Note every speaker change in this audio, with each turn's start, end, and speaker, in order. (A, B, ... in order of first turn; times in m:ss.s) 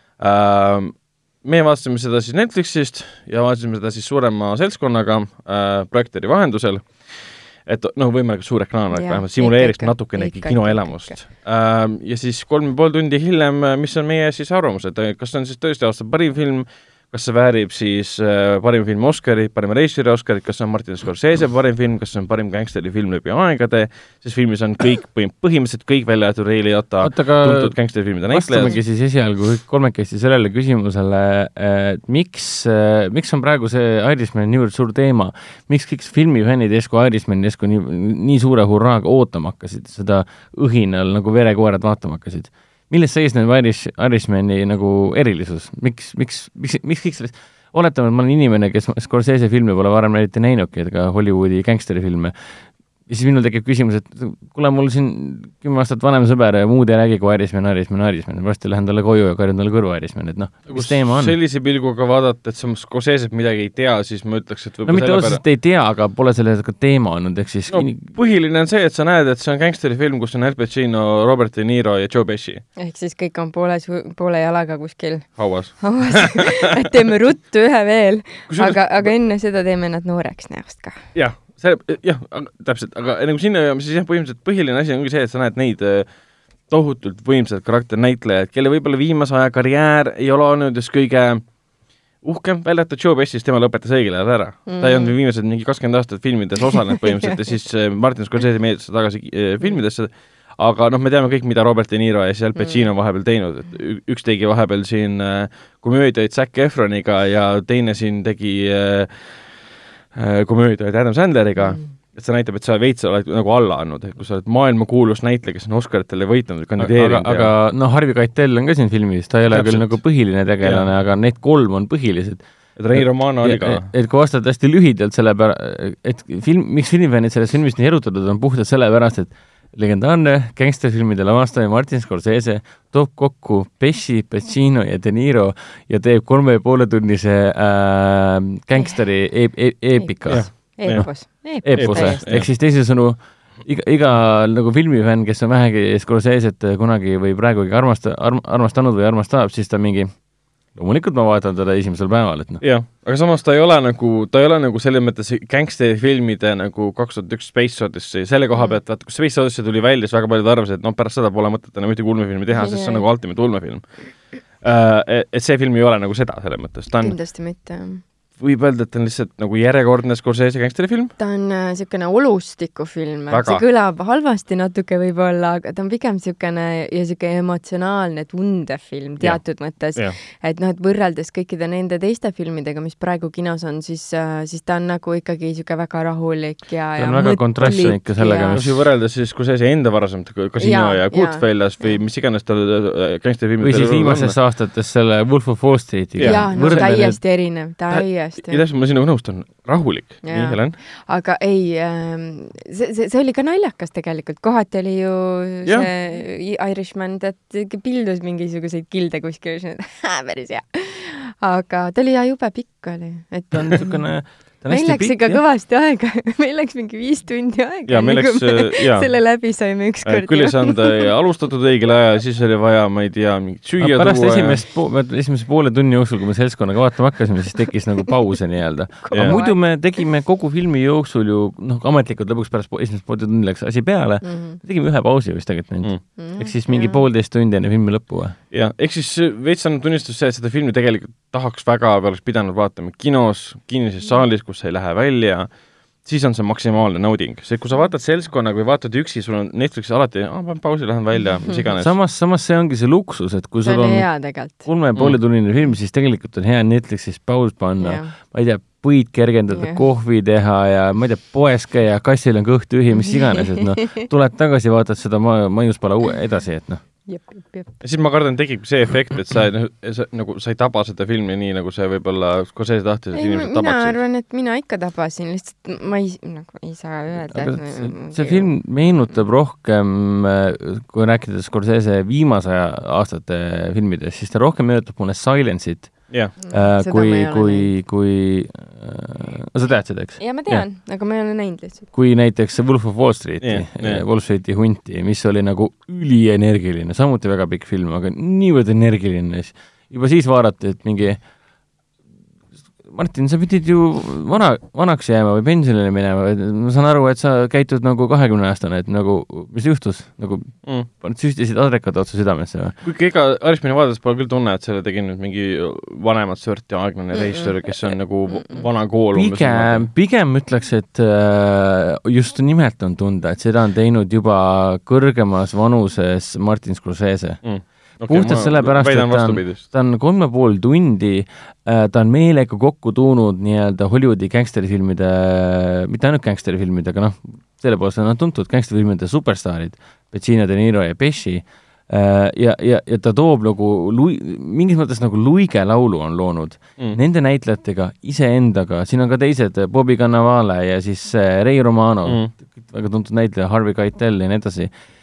0:00.2-0:28.8 A
0:08.9-0:11.2 B
0:27.0-0:27.8 C
0:28.3-1:01.4 C
1:00.7-1:05.4 A
1:04.8-1:08.0 C
1:07.7-1:12.6 A
1:12.8-1:21.0 B
1:15.4-1:16.9 A
1:18.5-1:19.1 A
1:21.1-1:26.1 A
1:26.7-1:31.4 A
1:32.2-1:49.6 A
1:34.7-1:35.2 B
1:42.6-1:42.8 B
1:50.1-1:57.5 A
1:51.6-1:51.9 B
1:56.8-2:02.4 C
1:59.5-2:00.9 A
2:02.8-2:03.9 A
2:02.9-2:21.1 C
2:20.0-2:22.3 B
2:20.3-2:22.5 A
2:21.6-2:32.6 C
2:32.6-2:47.2 A
2:42.5-2:43.0 B
2:47.0-2:48.0 B
2:48.4-2:51.2 A
2:51.2-3:08.6 B
2:53.3-2:53.6 A
3:07.0-3:08.7 C
3:07.6-3:14.4 A
3:10.6-3:12.0 B
3:13.6-3:17.2 C
3:16.2-3:16.9 A
3:16.2-3:18.6 B
3:17.9-3:20.8 A
3:20.2-3:34.0 B
3:25.6-3:25.9 A
3:33.5-3:35.4 C
3:34.7-3:41.1 B
3:37.9-3:39.2 A
3:40.0-3:44.6 A
3:43.8-3:58.4 C
3:49.0-3:49.8 B
3:49.1-3:49.4 A
3:54.2-3:54.6 B
3:56.2-3:57.0 B
3:58.5-4:05.5 A
4:06.0-4:11.9 A
4:11.2-4:11.7 B
4:11.8-4:26.8 C
4:13.6-4:14.6 B
4:17.8-4:18.1 B
4:19.5-4:19.8 B
4:23.1-4:24.0 B
4:27.1-4:27.7 B
4:27.8-4:34.0 A
4:33.1-4:38.6 B
4:37.2-4:50.7 C
4:46.4-4:47.7 B
4:50.2-4:51.9 B
4:51.9-5:01.2 C
4:53.4-4:54.0 A
5:02.8-5:12.8 C
5:12.8-5:19.9 A
5:17.1-5:17.5 B
5:19.1-5:27.4 C
5:27.4-5:29.6 A
5:28.0-5:54.7 C
5:52.0-5:52.3 A